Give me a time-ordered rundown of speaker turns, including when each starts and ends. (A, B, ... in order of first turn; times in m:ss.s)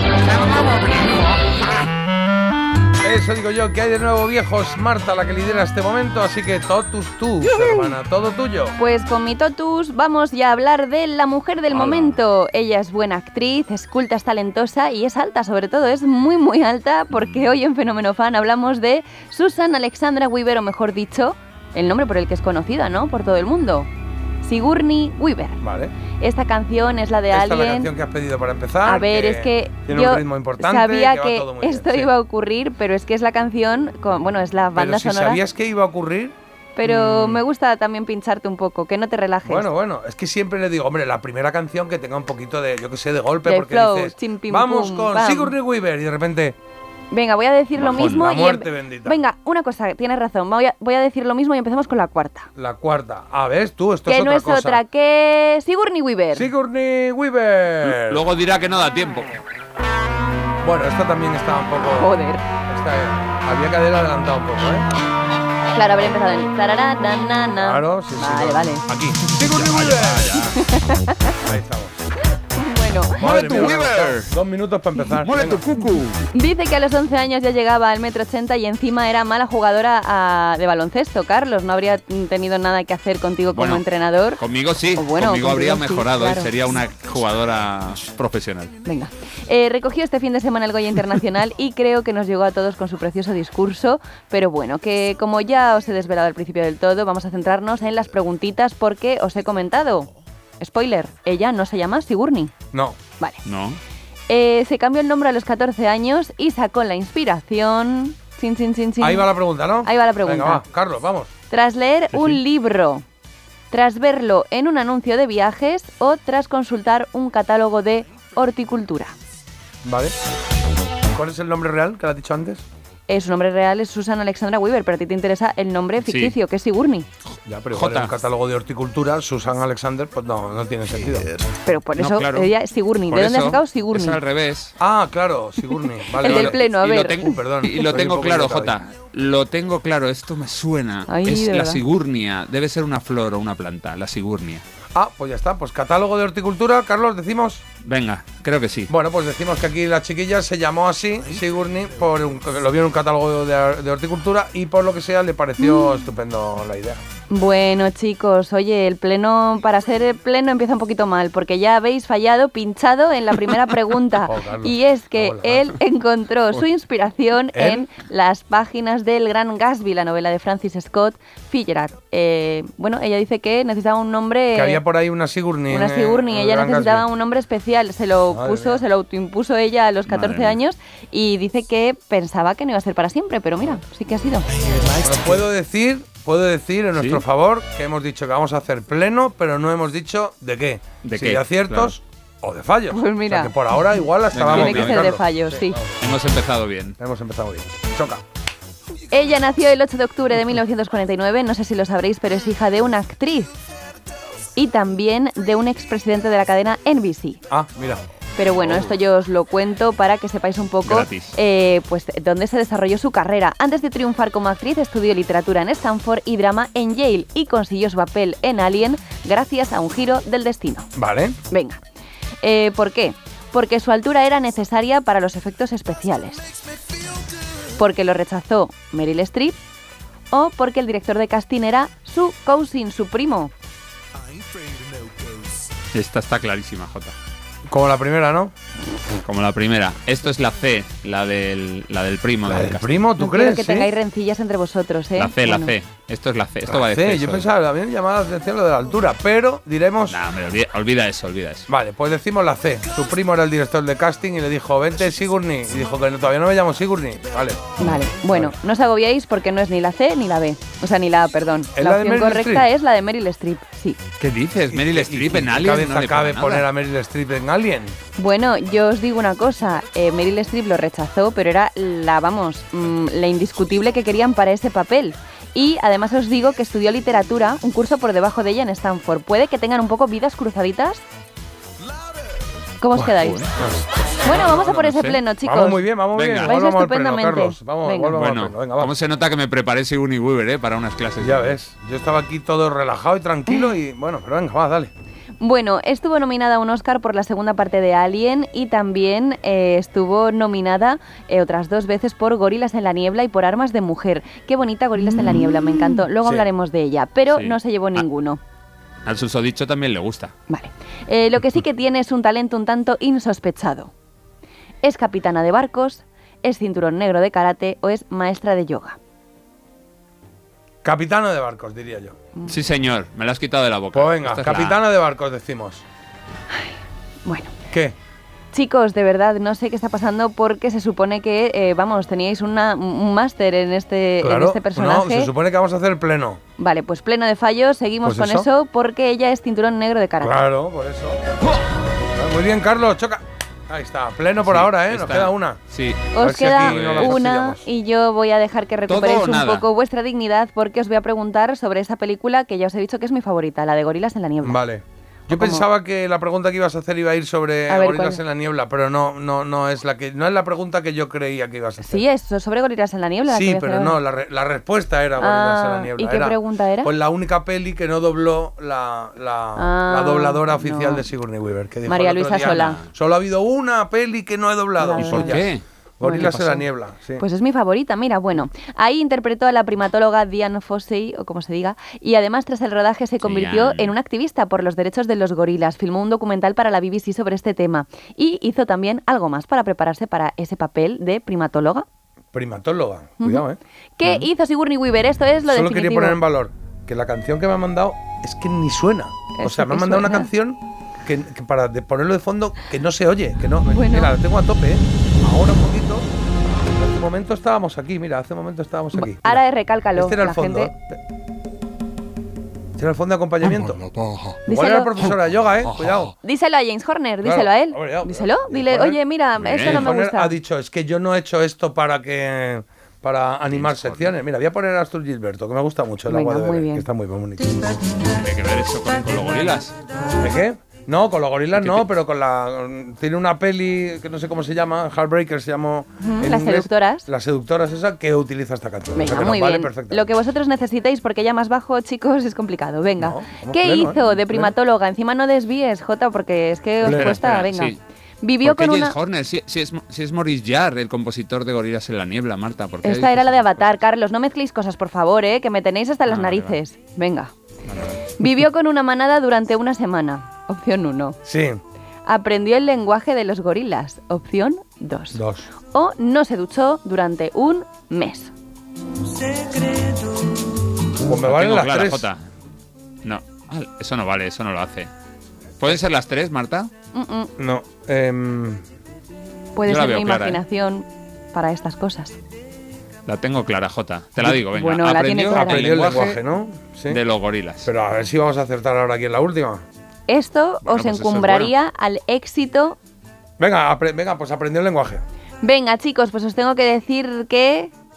0:00.2-0:01.3 A
0:03.0-0:08.8 B
0:08.8-0:23.9 C
0:11.7-0:12.1 B
0:24.4-0:25.6 C
0:25.6-0:25.9 B
0:26.2-0:27.9 C
0:27.3-0:32.1 B
0:28.8-0:35.4 C
0:34.7-0:37.4 B
0:36.8-0:39.7 C
0:39.4-0:46.6 B
0:43.4-0:45.5 C
0:47.1-0:52.5 C
0:47.8-0:48.3 A
0:47.8-0:49.2 B
0:52.6-0:54.8 B
0:54.1-0:56.5 C
0:56.3-0:58.2 B
0:57.9-0:59.3 A
1:00.6-1:02.1 B
1:01.7-1:02.4 C
1:02.7-1:04.9 B
1:05.7-1:08.8 C
1:07.6-1:10.5 B
1:09.3-1:10.7 A
1:10.4-1:11.4 C
1:11.3-1:12.0 B
1:12.5-1:13.5 C
1:13.2-1:15.7 B
1:13.2-1:14.3 A
1:15.1-1:16.2 A
1:16.3-1:24.4 C
1:23.5-1:23.8 A
1:24.4-1:28.7 A
1:24.9-1:26.5 C
1:28.8-1:40.1 C
1:40.6-1:42.5 C
1:42.7-1:43.0 B
1:43.4-1:43.8 A
1:44.3-1:50.6 C
1:49.0-1:51.3 B
1:51.5-1:53.0 C
1:52.1-1:52.4 A
1:53.7-1:59.1 C
1:59.8-2:00.1 B
2:01.1-2:02.6 B
2:03.1-2:07.1 C
2:06.0-2:06.4 A
2:07.4-2:11.4 B
2:07.7-2:08.1 A
2:11.6-2:14.2 C
2:12.0-2:12.5 A
2:13.1-2:14.7 A
2:14.8-2:16.6 B
2:16.2-2:24.6 A
2:16.2-2:17.9 C
2:17.2-2:18.8 B
2:21.1-2:21.8 C
2:24.9-2:27.6 B
2:27.8-2:28.9 A
2:28.9-2:37.0 B
2:35.6-2:36.0 C
2:37.3-2:54.8 C
2:44.2-2:45.7 B
2:47.5-2:47.9 B
2:54.5-2:57.1 B
2:55.7-3:04.5 C
2:58.3-2:58.8 B
3:00.1-3:00.6 A
3:04.9-3:15.8 B
3:07.0-3:07.2 A
3:11.0-3:11.9 A
3:12.9-3:13.5 C
3:14.3-3:15.1 A
3:14.4-3:15.8 C
3:16.0-3:17.0 A
3:17.0-3:18.2 B
3:19.1-3:23.5 C
3:24.6-3:27.4 C
3:27.5-3:28.0 B
3:28.4-3:40.9 C
3:30.8-3:31.3 A
3:41.0-3:41.4 B
3:41.5-3:41.8 C
3:42.4-3:46.5 C
3:47.8-3:49.6 C
3:50.3-3:53.5 C
3:55.9-3:57.1 A
3:57.7-3:58.5 B
3:59.2-4:03.0 A
4:02.4-4:03.9 B
4:03.2-4:05.7 C
4:05.2-4:07.5 A
4:06.7-4:10.2 B
4:10.1-4:11.7 A
4:11.7-4:17.7 B
4:17.8-4:24.0 C
4:21.7-4:22.7 B
4:24.2-4:26.7 A
4:24.7-4:28.0 B
4:28.2-4:41.0 C
4:42.8-4:43.5 C
4:43.0-4:43.8 B
4:43.1-4:43.5 A
4:44.2-4:48.2 C
4:44.3-4:45.2 A
4:45.4-4:48.9 B
4:46.1-4:46.5 A
4:48.1-4:51.6 A
4:51.2-4:54.9 B
4:55.4-5:08.4 C
5:07.3-5:08.0 A
5:09.0-5:10.3 A
5:10.5-5:13.9 C
5:14.8-5:19.0 C
5:20.8-5:22.2 B
5:22.4-5:24.8 A
5:23.9-5:25.8 B
5:27.2-5:27.5 C
5:28.5-5:35.3 C
5:34.2-5:36.4 B
5:36.6-5:40.4 C
5:38.0-5:38.5 B
5:40.2-5:41.2 B
5:42.1-5:45.6 B
5:44.4-5:47.2 A
5:46.1-5:54.6 C
5:46.2-5:47.6 B
5:48.9-5:49.6 A
5:54.4-6:02.0 B
5:55.3-5:55.6 C
5:57.7-5:58.2 C
6:01.8-6:04.0 C
6:03.3-6:17.2 B
6:05.2-6:06.9 C
6:09.6-6:11.0 C
6:11.8-6:12.8 C
6:12.4-6:12.6 A
6:14.8-6:15.4 C
6:15.0-6:15.6 A
6:16.0-6:16.7 C
6:17.2-6:31.8 C
6:23.2-6:23.9 A
6:32.3-6:33.6 B
6:33.2-6:33.4 C
6:34.0-6:36.2 C
6:35.4-6:49.4 B
6:39.3-6:40.3 C
6:43.7-6:44.1 C
6:48.9-6:50.7 C
6:50.0-6:51.0 B
6:52.8-6:53.8 B
6:53.6-6:54.4 A
6:54.4-6:54.9 C
6:54.4-6:56.1 B
6:55.7-6:56.1 A
6:56.2-7:00.4 C
6:57.2-6:59.0 B
6:59.4-6:59.9 A
6:59.6-7:07.6 B
7:03.5-7:04.1 A
7:06.1-7:06.8 C
7:08.0-7:09.7 A
7:10.2-7:20.0 B
7:11.5-7:11.9 A
7:16.0-7:17.1 C
7:19.0-7:29.0 C
7:23.0-7:24.5 B
7:26.8-7:27.2 B
7:26.8-7:27.8 A
7:28.4-7:33.5 A
7:32.8-7:37.3 C
7:36.1-7:36.6 A
7:37.7-7:38.0 A
7:38.2-7:41.2 C
7:41.2-7:41.6 B
7:42.0-7:48.3 C
7:45.1-7:45.5 B
7:51.0-7:52.1 B
7:51.1-7:52.2 A
7:53.0-7:54.9 A
7:55.6-7:56.7 A
7:56.9-7:57.3 C
7:57.4-7:58.6 B
7:59.5-8:02.2 C
7:59.6-8:00.4 A
8:03.0-8:06.2 A
8:04.3-8:05.9 C
8:05.3-8:07.0 B
8:06.9-8:07.7 A
8:07.6-8:09.6 B
8:10.1-8:12.8 C
8:10.6-8:11.5 A
8:13.4-8:15.0 B
8:15.4-8:17.7 C